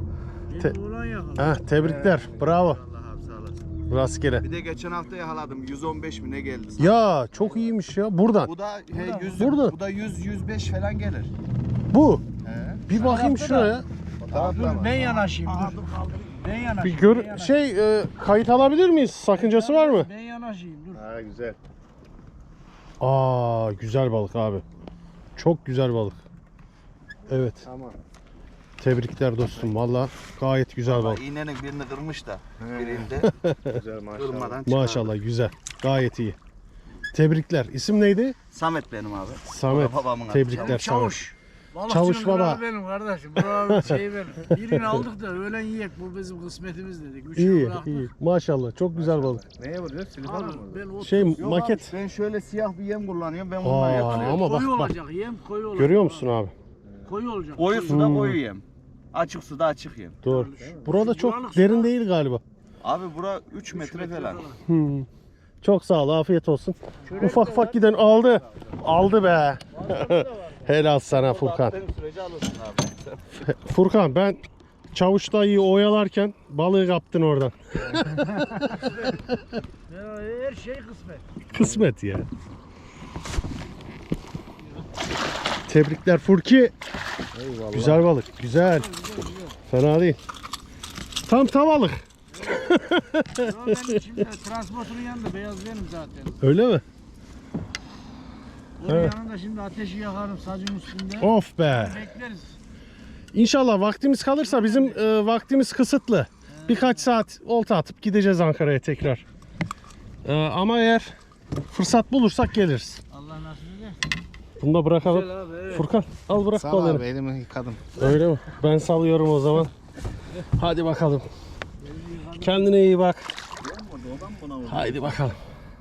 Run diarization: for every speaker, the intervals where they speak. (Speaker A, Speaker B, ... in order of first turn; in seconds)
Speaker A: 0.5-1.5, 8.9-9.5, 13.0-13.8, 14.3-17.5, 19.4-21.0, 40.4-48.1, 50.2-51.7, 53.7-56.2, 57.1-58.5, 60.3-61.9, 63.6-64.6, 67.2-67.7, 70.0-70.3, 79.9-81.2, 88.7-89.5, 93.4-96.4, 98.8-102.5, 104.6-105.0, 106.6-106.9, 113.1-114.0, 115.1-115.8, 121.8-122.5
Speaker B: 1.3-2.8, 3.9-4.4, 6.8-8.5, 9.3-9.8, 11.9-12.2, 12.9-13.8, 16.8-20.1, 23.0-24.6, 25.4-26.2, 27.3-27.6, 28.8-31.2, 33.1-33.8, 34.6-36.4, 37.1-38.4, 39.4-41.3, 41.9-42.6, 43.4-45.0, 47.4-49.4, 51.0-51.9, 53.6-54.9, 55.7-56.5, 57.9-58.4, 60.2-62.4, 64.7-65.1, 65.6-71.7, 73.4-74.4, 74.9-78.4, 81.5-82.3, 85.7-86.7, 87.7-88.9, 89.7-90.2, 91.3-94.1, 96.4-96.8, 98.8-99.1, 101.2-102.1, 103.3-109.2, 110.2-111.1, 111.7-113.0, 114.6-117.0, 117.9-119.7, 120.4-121.3, 122.4-123.3, 124.6-125.4
Speaker C: 2.1-3.5, 4.4-6.9, 8.5-11.3, 12.5-13.2, 14.3-16.7, 30.9-33.3, 34.2-35.1, 38.5-40.9, 51.3-54.5, 57.5-60.2, 62.8-64.5, 71.2-73.0, 123.6-125.1
Speaker D: 7.4-7.7, 14.2-15.2, 20.9-21.6, 27.6-28.0, 32.6-33.1, 33.7-34.6, 48.9-51.0, 56.8-57.2, 60.6-61.0, 81.5-81.8, 87.3-88.1, 116.5-117.9